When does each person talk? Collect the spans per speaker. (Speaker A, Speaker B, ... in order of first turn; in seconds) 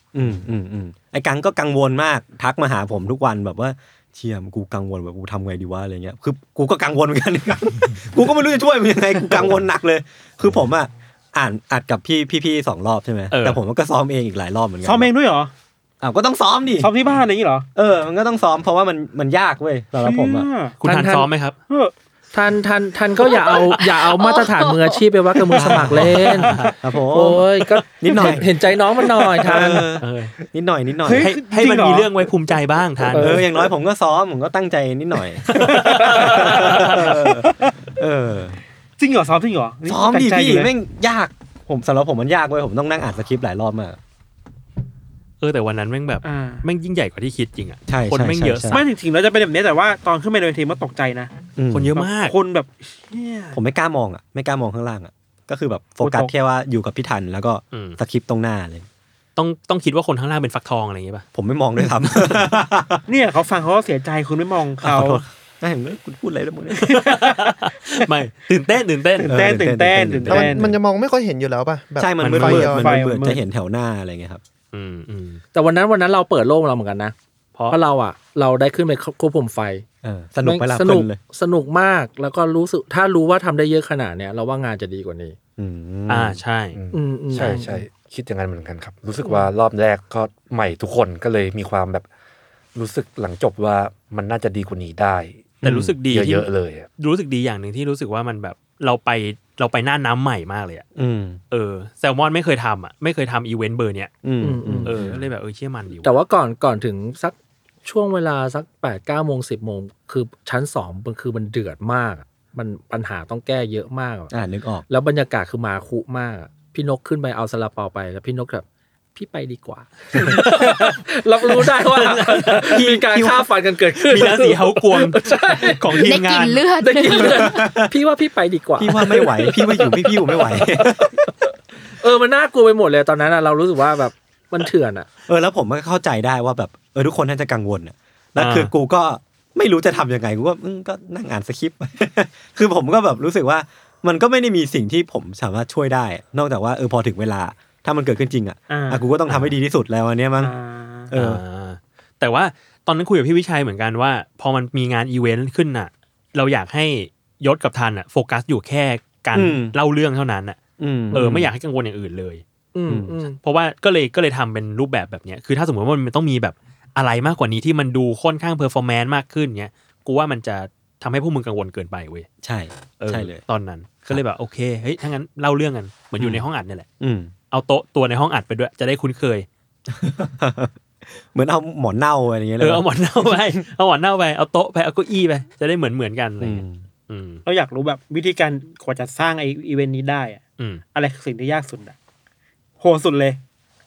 Speaker A: 0.1-15.1, 16.0-16.9, 17.7-20.5, 25.6-26.3, 26.8-28.5, 29.4-31.3, 33.2-38.6, 39.9-44.0, 47.9-48.8, 51.6-51.9, 53.5-58.9, 61.3-63.0, 64.8-66.9, 69.2-70.7, 72.0-74.4, 80.0-81.2, 85.6-86.4, 95.6-95.9, 101.0-101.4, 104.2-105.2, 114.3-114.8, 122.7-123.5, 127.2-127.9, 128.8-131.2, 135.3-150.5, 151.1-151.4, 159.3-159.7, 160.8-161.5, 162.9-163.2, 172.4-173.4, 177.0-177.3, 179.9-180.7, 181.3-183.4, 186.4-186.8
Speaker B: 13.3-13.6, 20.8-21.6, 25.9-26.8, 30.0-30.3, 31.2-33.4, 35.5-37.3, 45.4-48.8, 51.7-52.3, 57.7-58.0, 59.4-61.2, 61.8-62.4, 66.8-69.3, 72.2-72.7, 74.7-75.4, 86.1-86.8, 95.6-100.8, 101.5-104.1, 104.8-106.1, 120.2-121.0, 121.6-122.8, 124.0-126.6, 138.3-138.7, 149.3-149.6, 151.1-162.4, 163.4-172.3, 173.0-176.9, 177.5-179.5, 182.6-187.4
Speaker C: 14.8-15.5, 16.8-17.7, 20.0-20.8, 21.7-21.9, 31.0-32.1, 35.5-36.3, 39.0-40.7, 46.2-46.6, 48.7-51.3, 51.9-53.6, 56.0-56.3, 63.1-65.2, 69.2-70.7, 72.4-73.4, 148.7-149.1, 150.4-151.1, 187.4-190.4, 190.9-191.9, 192.8-193.4
Speaker D: 20.8-21.3, 22.3-26.6, 27.1-29.8, 33.1-33.4, 75.5-77.1, 77.7-79.8, 80.4-85.4, 86.9-87.8, 104.4-104.9, 106.0-114.3, 114.9-126.0, 126.8-131.1, 132.0-135.1, 162.7-163.4
Speaker E: 24.1-24.9, 126.0-127.6
Speaker F: 70.3-72.9
Speaker G: 86.7-92.0, 92.7-96.9